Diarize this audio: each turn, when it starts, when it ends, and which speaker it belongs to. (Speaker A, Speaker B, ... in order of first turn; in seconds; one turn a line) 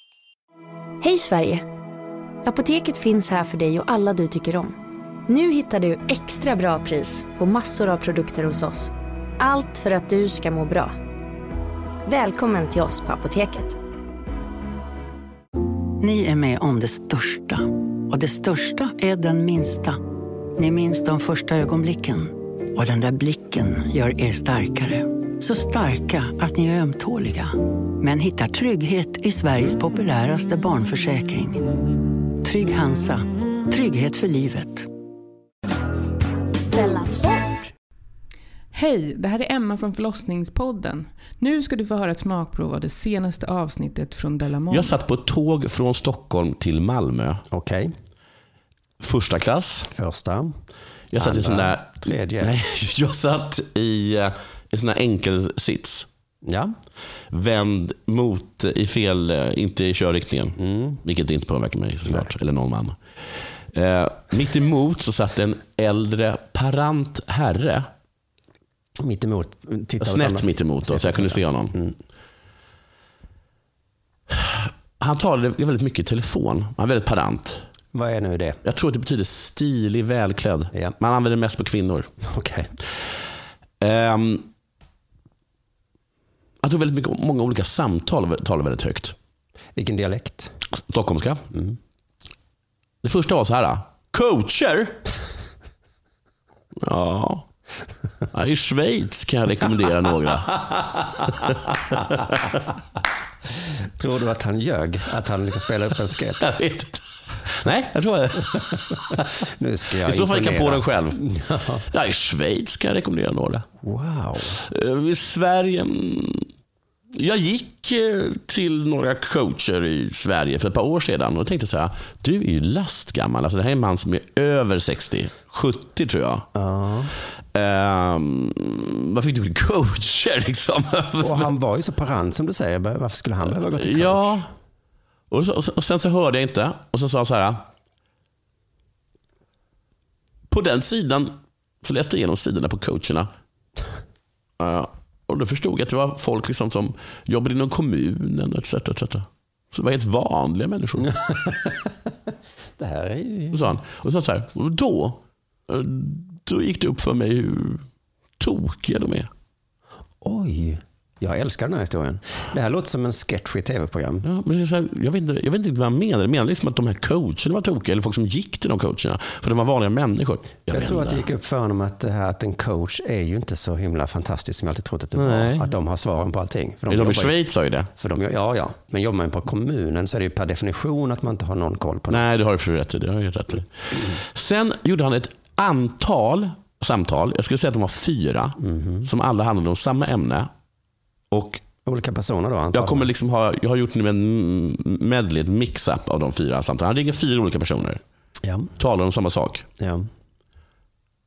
Speaker A: 1.0-1.6
Speaker A: 2.5-4.8
Speaker A: 5.3-10.9
Speaker A: 12.1-13.8
Speaker B: 16.0-20.0
Speaker B: 20.6-31.6
Speaker B: 32.2-34.9
Speaker C: 38.7-45.0
Speaker D: 44.7-47.4
Speaker E: 47.5-47.9
Speaker D: 49.0-49.9
Speaker E: 49.9-50.5
Speaker D: 51.1-56.1
Speaker E: 51.2-52.5
Speaker E: 56.4-56.7
Speaker D: 57.3-63.0
Speaker E: 60.6-61.0
Speaker D: 63.7-67.8
Speaker E: 69.0-71.9
Speaker D: 70.0-71.7
Speaker D: 74.3-77.6
Speaker E: 77.9-78.6
Speaker D: 78.6-82.1
Speaker E: 82.2-82.7
Speaker D: 83.8-84.5
Speaker D: 86.6-89.2
Speaker E: 89.7-90.5
Speaker D: 90.8-91.4
Speaker D: 93.0-95.0
Speaker D: 96.8-97.5
Speaker D: 98.3-102.0
Speaker E: 104.0-106.4
Speaker D: 106.4-109.2
Speaker E: 109.4-111.8
Speaker D: 110.0-111.3
Speaker D: 111.9-113.7
Speaker E: 113.8-114.6
Speaker D: 114.6-116.5
Speaker D: 117.1-126.5
Speaker E: 126.5-127.1
Speaker D: 127.5-131.5
Speaker E: 131.2-134.4
Speaker D: 133.6-134.5
Speaker D: 135.3-137.6
Speaker D: 140.5-143.3
Speaker D: 144.6-151.1
Speaker E: 151.2-151.8
Speaker E: 152.8-153.7
Speaker D: 153.5-157.8
Speaker D: 158.4-159.3
Speaker E: 160.2-164.2
Speaker D: 164.2-171.2
Speaker E: 170.7-177.4
Speaker D: 175.2-175.7
Speaker D: 176.9-177.9
Speaker E: 178.0-182.4
Speaker D: 182.1-190.5
Speaker E: 188.6-189.1
Speaker D: 191.3-191.6
Speaker E: 191.8-193.1
Speaker D: 192.7-198.0
Speaker E: 198.4-198.7
Speaker D: 198.8-199.7
Speaker E: 199.8-200.0